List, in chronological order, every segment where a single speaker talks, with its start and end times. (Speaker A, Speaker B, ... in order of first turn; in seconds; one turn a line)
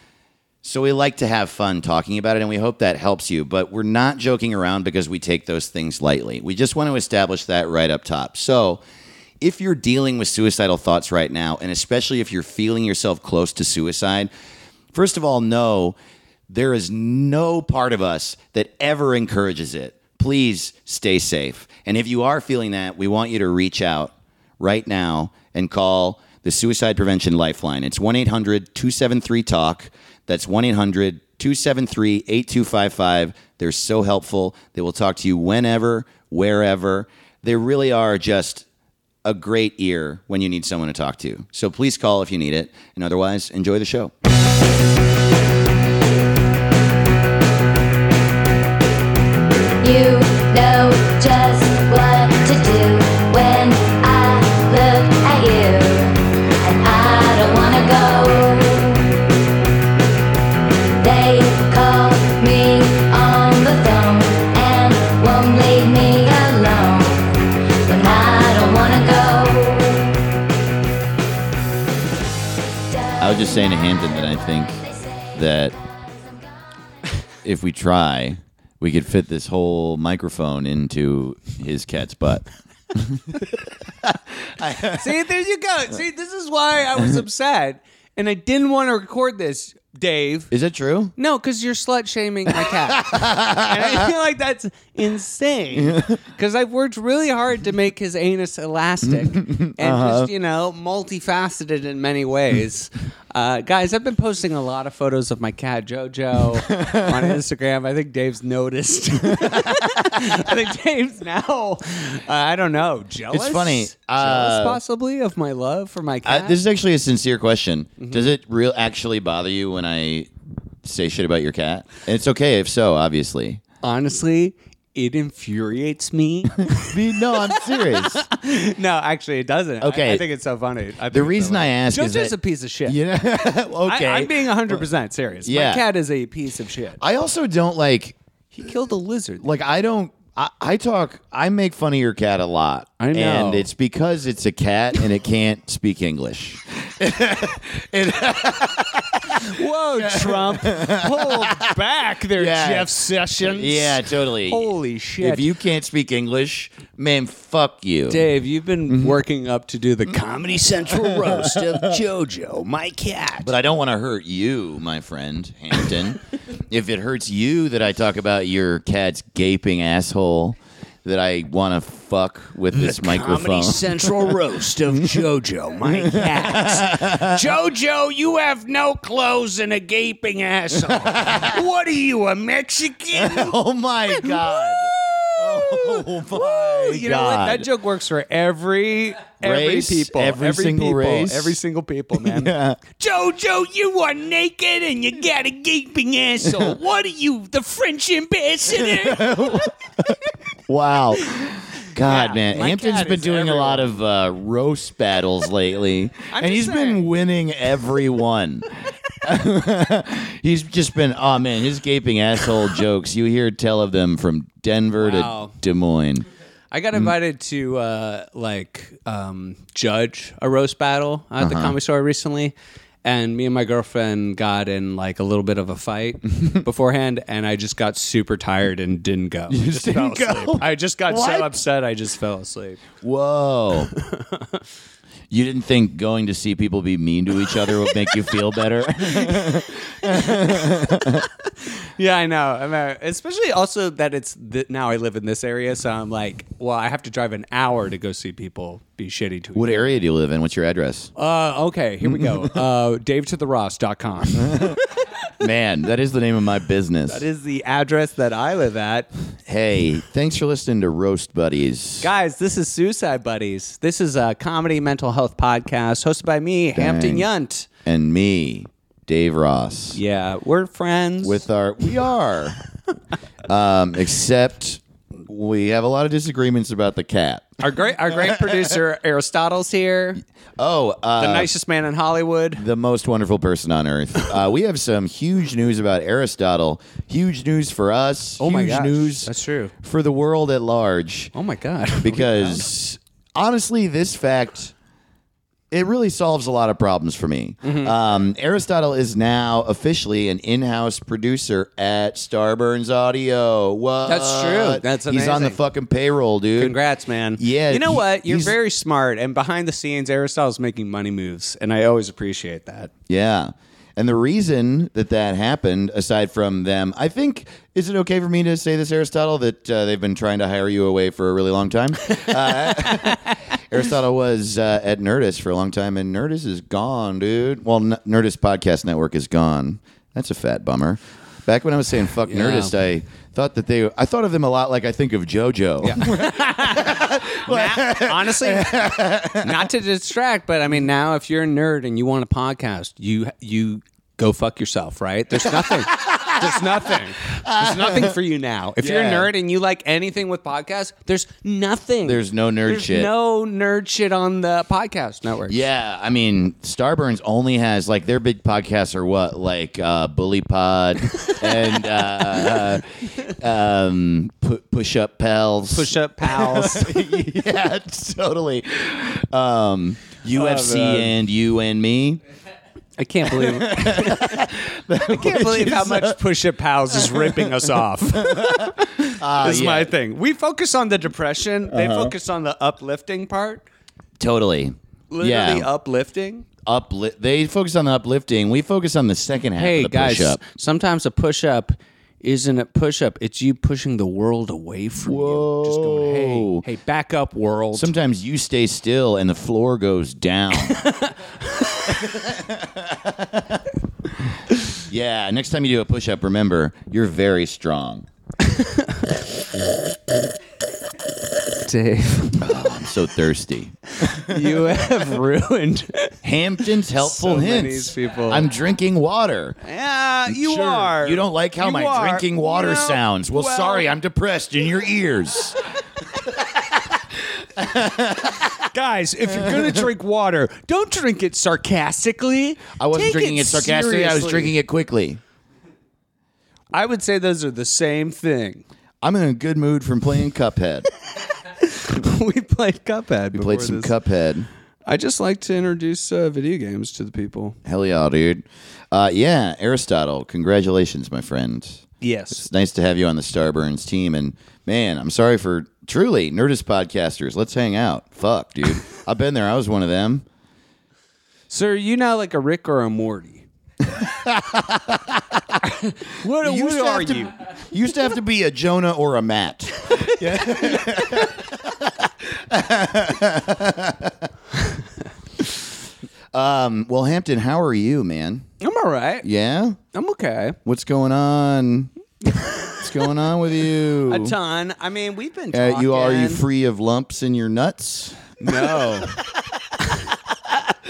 Speaker A: 0.6-8.8
Speaker A: 9.4-14.3
Speaker A: 14.9-15.9
Speaker A: 16.5-38.6
Speaker A: 39.2-44.1
Speaker B: 49.8-59.1
Speaker B: 61.0-70.2
Speaker B: 72.9-76.5
Speaker A: 73.2-74.8
Speaker A: 75.3-75.8
Speaker A: 77.4-85.1
Speaker C: 84.9-90.5
Speaker A: 90.5-91.1
Speaker C: 91.2-116.6
Speaker A: 92.8-94.1
Speaker A: 95.8-96.1
Speaker A: 99.1-100.3
Speaker A: 106.7-107.2
Speaker A: 109.4-109.7
Speaker A: 113.3-114.8
Speaker A: 116.2-120.3
Speaker C: 118.0-118.3
Speaker A: 120.8-123.6
Speaker C: 123.8-133.0
Speaker A: 126.7-128.2
Speaker A: 129.8-130.2
Speaker A: 131.1-132.3
Speaker A: 132.8-134.8
Speaker C: 133.8-137.0
Speaker A: 135.4-135.8
Speaker A: 137.0-138.2
Speaker C: 138.5-139.4
Speaker A: 139.4-151.7
Speaker C: 143.0-143.7
Speaker C: 149.3-155.5
Speaker A: 152.3-158.2
Speaker C: 158.1-163.5
Speaker A: 158.9-159.2
Speaker A: 161.0-161.8
Speaker A: 163.4-174.1
Speaker C: 172.7-183.6
Speaker A: 175.8-177.4
Speaker A: 180.8-181.6
Speaker A: 183.1-187.7
Speaker C: 184.1-199.7
Speaker A: 189.4-191.6
Speaker A: 192.2-192.8
Speaker A: 198.8-216.2
Speaker C: 201.9-204.0
Speaker C: 206.3-207.1
Speaker C: 215.0-215.5
Speaker C: 216.7-232.8
Speaker A: 221.4-221.7
Speaker A: 229.5-231.5
Speaker A: 233.0-233.9
Speaker C: 233.9-234.6
Speaker A: 235.3-241.3
Speaker C: 239.1-249.9
Speaker A: 249.6-251.1
Speaker C: 251.2-254.8
Speaker A: 252.1-252.6
Speaker A: 254.4-254.8
Speaker A: 255.4-257.2
Speaker C: 257.1-259.1
Speaker A: 259.5-262.1
Speaker C: 262.0-267.7
Speaker A: 266.7-267.3
Speaker A: 267.8-270.0
Speaker C: 269.9-271.4
Speaker A: 271.2-272.6
Speaker A: 273.5-278.6
Speaker C: 277.6-280.2
Speaker A: 280.6-281.5
Speaker C: 281.2-282.6
Speaker A: 282.6-289.3
Speaker C: 288.4-289.7
Speaker A: 289.8-291.3
Speaker C: 291.3-292.7
Speaker A: 292.0-294.7
Speaker A: 295.7-306.7
Speaker C: 297.6-297.9
Speaker C: 304.1-305.6
Speaker C: 306.6-312.9
Speaker A: 307.4-308.6
Speaker A: 313.1-339.7
Speaker C: 322.6-323.2
Speaker C: 332.2-332.7
Speaker C: 335.8-355.7
Speaker A: 345.6-348.2
Speaker A: 348.8-349.3
Speaker A: 352.0-353.1
Speaker A: 355.5-372.2
Speaker C: 361.4-362.6
Speaker C: 365.7-367.2
Speaker C: 370.3-371.1
Speaker C: 373.0-374.5
Speaker A: 373.3-376.2
Speaker C: 375.1-383.6
Speaker A: 377.0-379.9
Speaker A: 381.7-382.1
Speaker A: 384.2-385.7
Speaker C: 385.1-386.4
Speaker A: 386.6-390.4
Speaker C: 389.6-397.9
Speaker A: 395.0-396.6
Speaker A: 397.7-400.8
Speaker C: 400.6-402.1
Speaker A: 401.9-403.6
Speaker A: 404.9-408.1
Speaker C: 408.4-409.1
Speaker C: 411.6-412.6
Speaker A: 412.4-414.9
Speaker C: 414.0-416.2
Speaker A: 416.2-419.6
Speaker C: 416.8-418.5
Speaker C: 419.6-423.9
Speaker A: 420.2-425.6
Speaker A: 427.6-428.6
Speaker C: 428.6-434.5
Speaker A: 432.8-435.2
Speaker C: 436.7-438.6
Speaker A: 439.0-440.9
Speaker C: 441.4-443.9
Speaker A: 443.3-444.5
Speaker C: 444.8-447.6
Speaker A: 447.6-460.2
Speaker C: 452.0-452.4
Speaker C: 461.5-463.4
Speaker A: 463.8-465.6
Speaker C: 465.6-467.3
Speaker A: 466.4-474.3
Speaker C: 470.6-470.9
Speaker A: 476.3-478.4
Speaker C: 478.6-479.3
Speaker A: 479.2-479.8
Speaker C: 479.9-480.6
Speaker A: 480.6-481.9
Speaker A: 482.8-484.4
Speaker C: 484.1-486.4
Speaker A: 485.5-488.9
Speaker C: 488.4-489.1
Speaker C: 489.8-490.1